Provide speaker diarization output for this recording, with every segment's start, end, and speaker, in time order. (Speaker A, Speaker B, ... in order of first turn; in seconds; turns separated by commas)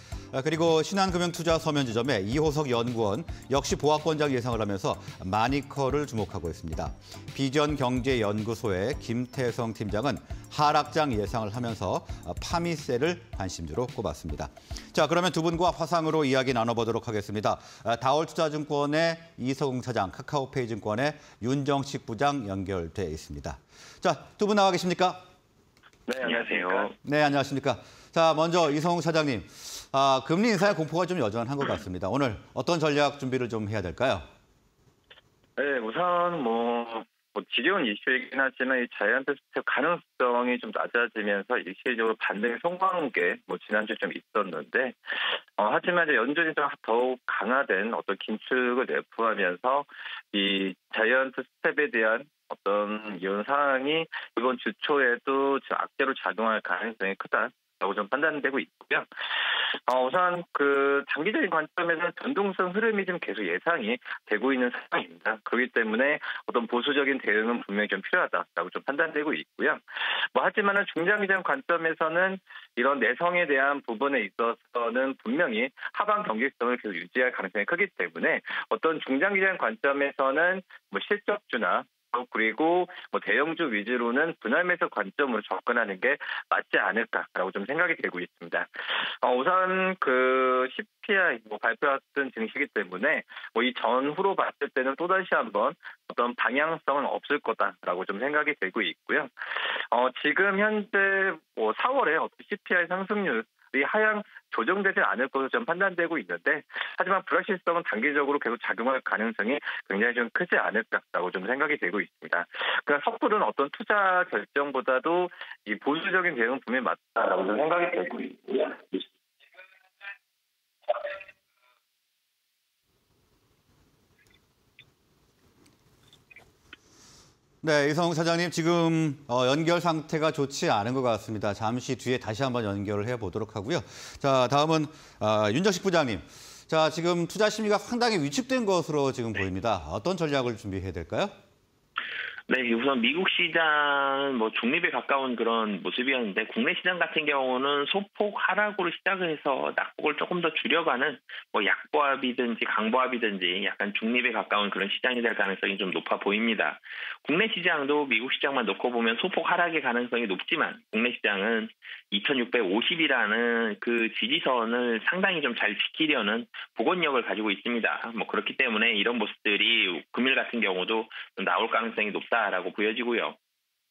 Speaker A: 0.3-25.2, Speaker B: 26.1-26.9, Speaker C: 26.2-26.9, Speaker A: 27.0-34.2, Speaker B: 35.6-59.1, Speaker B: 59.9-119.0, Speaker A: 127.6-141.3, Speaker C: 142.5-173.3